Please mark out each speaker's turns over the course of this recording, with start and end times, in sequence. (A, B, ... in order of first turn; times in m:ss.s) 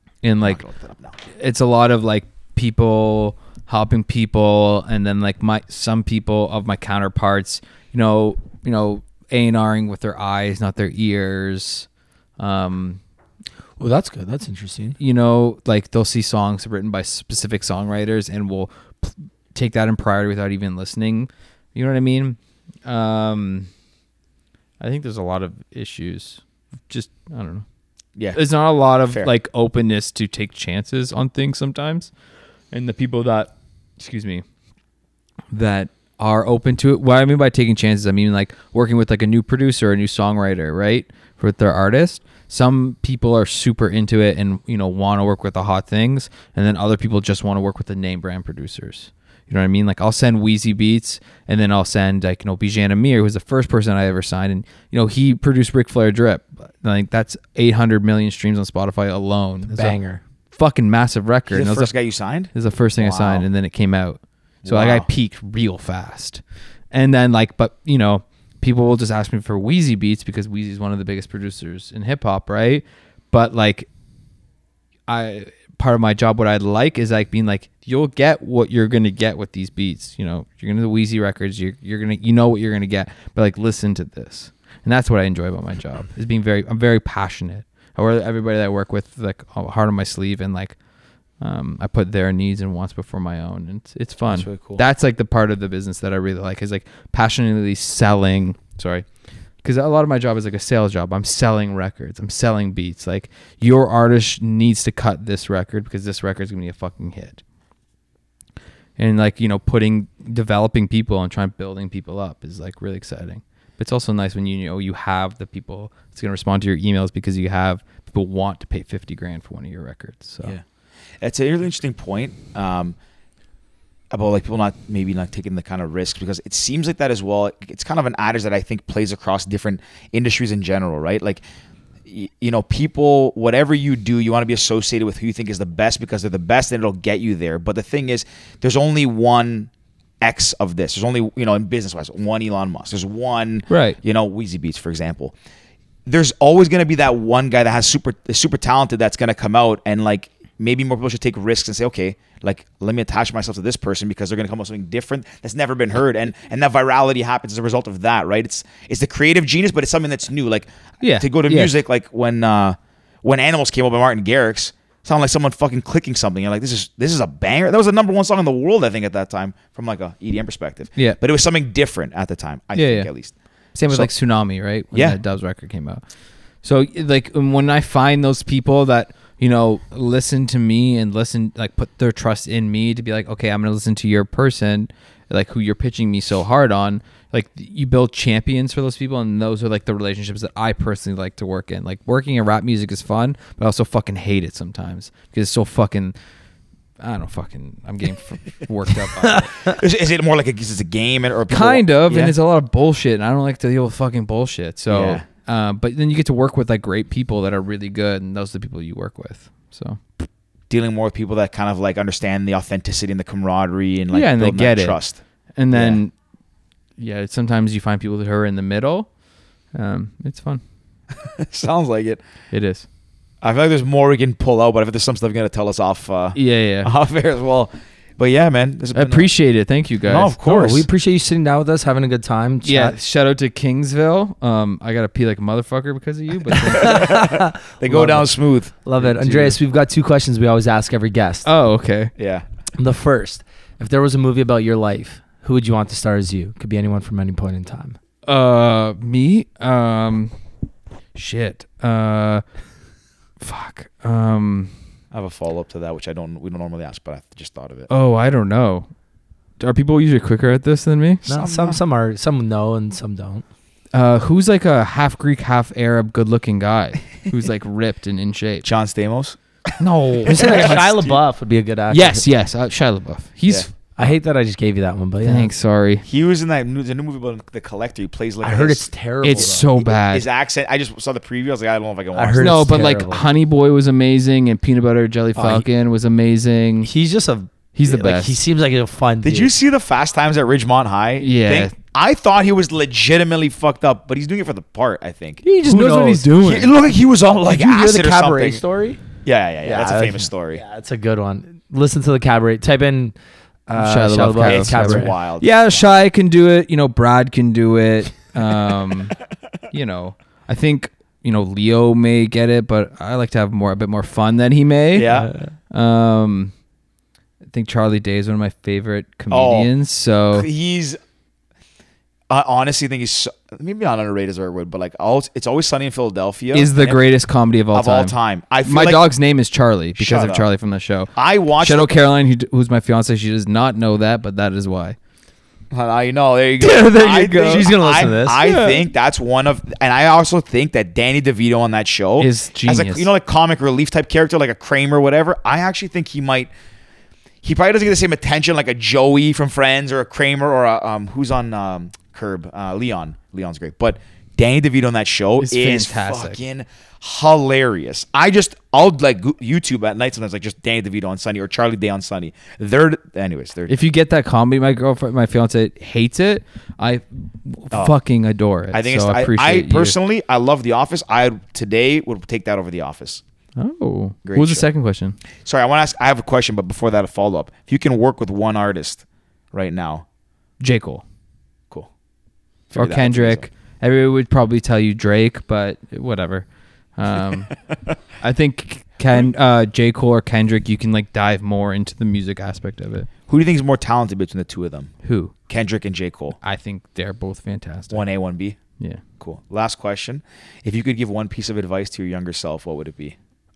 0:00.2-0:00.6 A
0:00.4-0:01.2 B
0:01.3-0:11.9 A
0:12.4-0:13.0 A
0:13.8-0:15.0 C
0:15.0-0:23.7 A
0:24.8-0:27.6 A
0:28.2-0:28.4 B
0:28.3-0:32.1 A
0:32.7-0:34.4 A
0:35.5-1:00.0 A
0:59.6-1:00.2 C
1:00.5-1:01.9 A
1:01.5-1:03.5 B
1:02.5-1:13.9 A
1:04.6-1:05.1 B
1:15.1-1:30.8 A
1:31.4-1:39.1 A
1:34.4-1:34.7 B
1:34.5-1:34.8 C
1:39.6-1:47.4 A
1:49.0-2:00.6 A
2:01.2-2:03.0 B
2:04.1-2:11.4 B
2:12.1-2:19.7 B
2:20.2-2:25.3 B
2:23.7-2:24.0 A
2:26.1-2:53.4 B
2:41.0-2:41.7 A
2:52.7-2:53.1 A
2:53.7-2:56.0 A
2:54.9-2:55.2 B
2:56.6-3:16.2 A
3:17.0-3:19.7 A
3:19.2-3:19.7 C
3:19.6-3:22.4 B
3:21.5-3:30.0 A
3:24.9-3:25.2 B
3:30.7-3:36.0 B
3:34.1-3:35.0 A
3:35.6-3:36.1 A
3:37.0-3:39.1 A
3:39.7-3:40.6 A
3:41.2-3:42.2 B
3:42.5-3:42.8 A
3:43.4-3:49.3 B
3:46.4-3:46.9 A
3:48.9-3:50.4 A
3:50.0-3:50.9 B
3:50.4-3:53.0 C
3:52.6-3:57.2 A
3:56.7-4:01.4 C
3:56.8-3:58.7 B
3:59.0-3:59.6 A
4:01.4-4:02.1 A
4:02.2-4:02.4 B
4:02.8-4:08.0 C
4:08.3-4:10.3 A
4:11.2-4:12.4 A
4:13.4-4:14.7 A
4:15.1-4:17.9 B
4:17.9-4:18.9 A
4:19.6-4:21.3 A
4:21.2-4:21.8 B
4:21.3-4:23.4 C
4:23.9-4:28.7 A
4:28.6-4:29.7 B
4:29.8-4:31.2 A
4:30.3-4:31.1 B
4:30.3-4:32.2 C
4:31.9-4:34.2 A
4:34.0-4:35.5 C
4:35.2-4:36.0 A
4:36.0-4:42.6 B
4:38.4-4:39.6 C
4:39.2-4:40.3 A
4:42.2-4:43.2 C
4:42.4-4:46.9 A
4:45.4-4:45.7 C
4:46.8-4:49.5 C
4:47.7-4:48.4 A
4:49.2-4:55.4 B
4:51.2-4:51.7 A
4:55.4-4:56.7 A
4:55.6-4:56.3 C
4:56.4-4:58.6 B
4:57.5-4:59.0 C
4:59.2-5:00.6 B
4:59.6-5:03.2 C
5:03.7-5:05.1 C
5:03.7-5:09.2 A
5:04.4-5:05.9 B
5:09.7-5:16.5 A
5:14.9-5:15.3 B
5:15.1-5:15.5 C
5:17.5-5:20.5 A
5:19.3-5:19.7 B
5:20.3-5:21.0 B
5:22.3-5:27.0 B
5:26.5-5:35.0 A
5:27.7-5:29.0 B
5:30.0-5:30.4 B
5:31.2-5:31.9 B
5:35.7-5:46.5 B
5:36.6-5:38.4 C
5:38.4-5:38.9 A
5:42.2-5:43.1 A
5:47.4-6:03.8 B
5:55.4-5:56.4 A
6:03.7-6:10.0 A
6:08.7-6:13.2 B
6:13.6-6:15.2 A
6:14.2-6:14.7 B
6:15.4-6:20.0 B
6:20.6-6:21.0 A
6:22.7-6:23.5 B
6:22.8-6:26.4 A
6:27.0-6:27.6 A
6:28.2-6:33.1 A
6:33.3-6:34.9 B
6:35.0-6:35.3 A
6:35.5-6:36.4 B
6:36.4-6:38.0 A
6:37.9-6:38.6 B
6:39.2-6:43.2 B